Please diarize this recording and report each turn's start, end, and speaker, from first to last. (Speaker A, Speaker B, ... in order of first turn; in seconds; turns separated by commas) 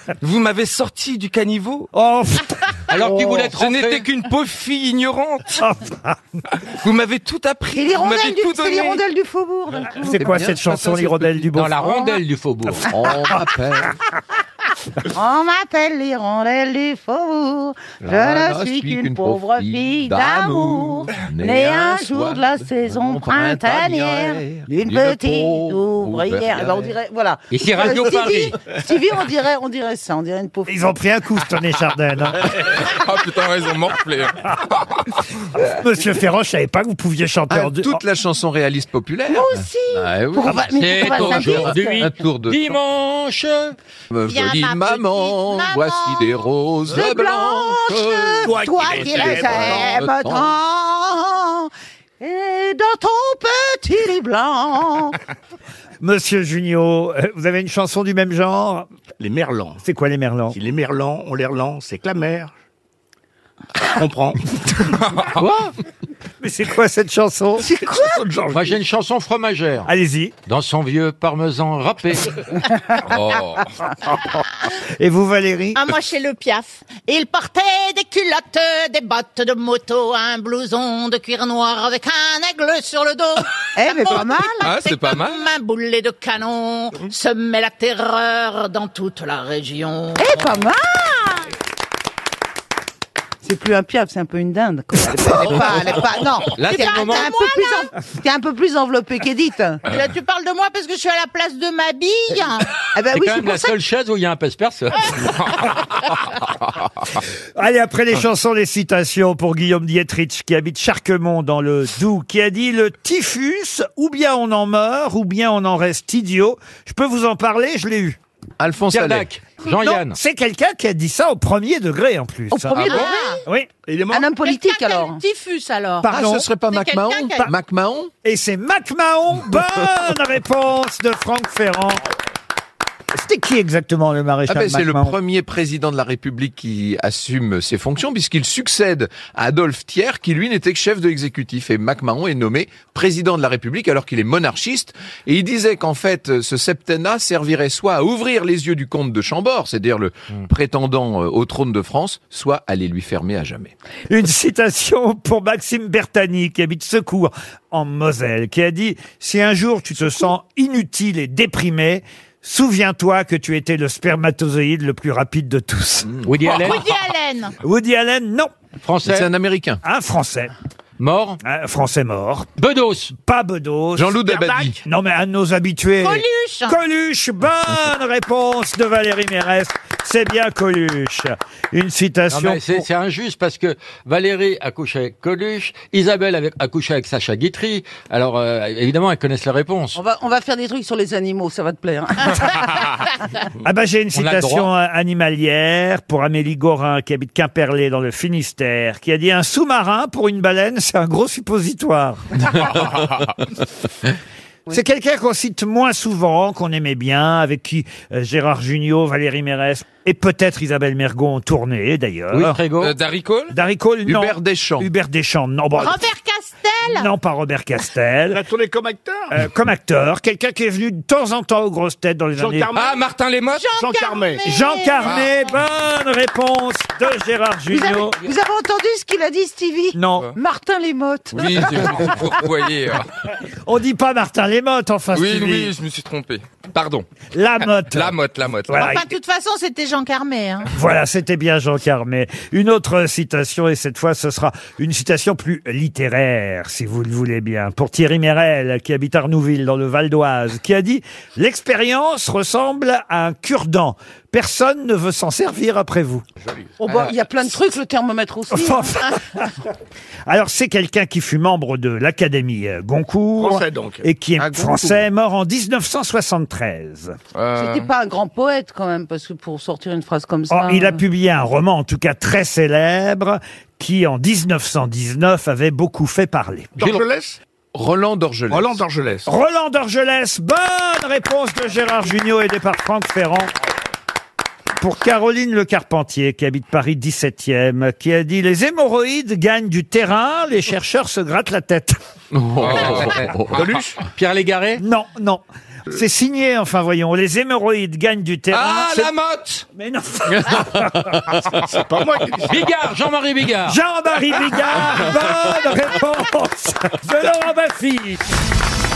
Speaker A: 0.2-1.9, Speaker B: 1.9-2.6, Speaker A: 2.9-5.5, Speaker C: 2.9-4.0, Speaker B: 5.6-6.2, Speaker A: 6.8-9.0, Speaker D: 7.7-10.2, Speaker B: 10.0-11.8, Speaker C: 11.5-12.9, Speaker E: 12.9-13.9, Speaker D: 15.1-30.8, Speaker E: 18.0-26.8, Speaker C: 27.5-28.6, Speaker B: 30.7-32.4, Speaker A: 32.8-34.4, Speaker B: 35.6-38.0, Speaker E: 37.5-39.7, Speaker D: 39.3-42.1, Speaker C: 39.9-43.8, Speaker E: 41.2-42.8, Speaker E: 44.1-48.5, Speaker F: 44.2-46.4, Speaker D: 46.9-55.1, Speaker G: 48.5-49.7, Speaker C: 48.8-50.5, Speaker F: 48.8-50.1, Speaker B: 56.0-58.9, Speaker B: 59.8-60.6, Speaker B: 66.4-67.7, Speaker D: 67.6-68.2, Speaker C: 68.5-69.9, Speaker B: 69.8-70.3, Speaker C: 70.5-72.3, Speaker A: 73.0-73.7, Speaker B: 75.0-75.8, Speaker F: 75.7-90.3, Speaker D: 83.8-84.6, Speaker A: 84.6-85.4, Speaker D: 90.2-91.5, Speaker D: 93.4-99.8, Speaker C: 96.5-97.3, Speaker F: 96.6-97.9, Speaker F: 99.8-102.7, Speaker D: 102.9-103.7, Speaker C: 103.1-105.5, Speaker B: 107.6-118.2, Speaker E: 118.6-119.3, Speaker C: 118.9-120.2, Speaker B: 119.7-123.7, Speaker D: 122.5-123.1, Speaker F: 122.8-123.4, Speaker G: 123.9-124.3, Speaker D: 124.1-125.2, Speaker F: 124.4-126.1, Speaker B: 126.0-126.5, Speaker E: 126.1-128.1, Speaker F: 126.6-127.5, Speaker B: 128.2-132.0, Speaker B: 133.2-135.2, Speaker E: 134.5-153.7, Speaker B: 154.1-166.1, Speaker E: 166.1-166.5, Speaker C: 166.2-166.9, Speaker F: 166.5-167.5, Speaker B: 167.6-168.5, Speaker C: 168.8-169.3, Speaker E: 169.0-169.8, Speaker B: 169.8-170.5, Speaker C: 171.0-171.4, Speaker B: 171.4-172.5, Speaker C: 172.6-173.1, Speaker B: 173.2-174.3, Speaker E: 174.0-174.8, Speaker B: 174.8-182.8, Speaker F: 176.0-176.8, Speaker C: 182.3-190.0, Speaker D: 189.9-192.6, Speaker B: 193.6-202.2, Speaker C: 194.1-194.7, Speaker B: 204.7-212.6, Speaker C: 212.3-212.9, Speaker A: 212.8-213.5, Speaker B: 213.5-216.0, Speaker E: 214.1-214.9, Speaker F: 215.8-217.1, Speaker B: 216.9-218.4, Speaker G: 218.4-219.0, Speaker B: 219.3-222.8, Speaker G: 222.4-222.8, Speaker A: 222.7-223.7, Speaker F: 223.5-225.3, Speaker B: 224.4-228.2, Speaker D: 227.7-231.9, Speaker B: 229.9-230.3, Speaker A: 231.3-233.1, Speaker B: 233.7-235.7, Speaker A: 235.1-237.1, Speaker B: 237.3-239.0, Speaker A: 237.9-238.9, Speaker F: 238.7-240.7, Speaker B: 240.7-256.2, Speaker D: 256.8-259.1, Speaker A: 256.8-257.1, Speaker B: 258.5-259.4, Speaker B: 260.3-267.1, Speaker G: 263.4-264.0, Speaker A: 264.4-265.0, Speaker A: 267.3-267.9, Speaker D: 267.5-271.0, Speaker B: 270.5-276.7, Speaker E: 277.7-278.8, Speaker G: 278.6-279.0, Speaker B: 279.2-283.5, Speaker B: 284.8-291.9, Speaker C: 292.5-294.8, Speaker A: 292.6-293.3, Speaker B: 294.8-299.1, Speaker A: 298.5-299.6, Speaker B: 299.7-301.1, Speaker G: 301.9-302.5, Speaker C: 302.4-303.8, Speaker B: 303.7-308.2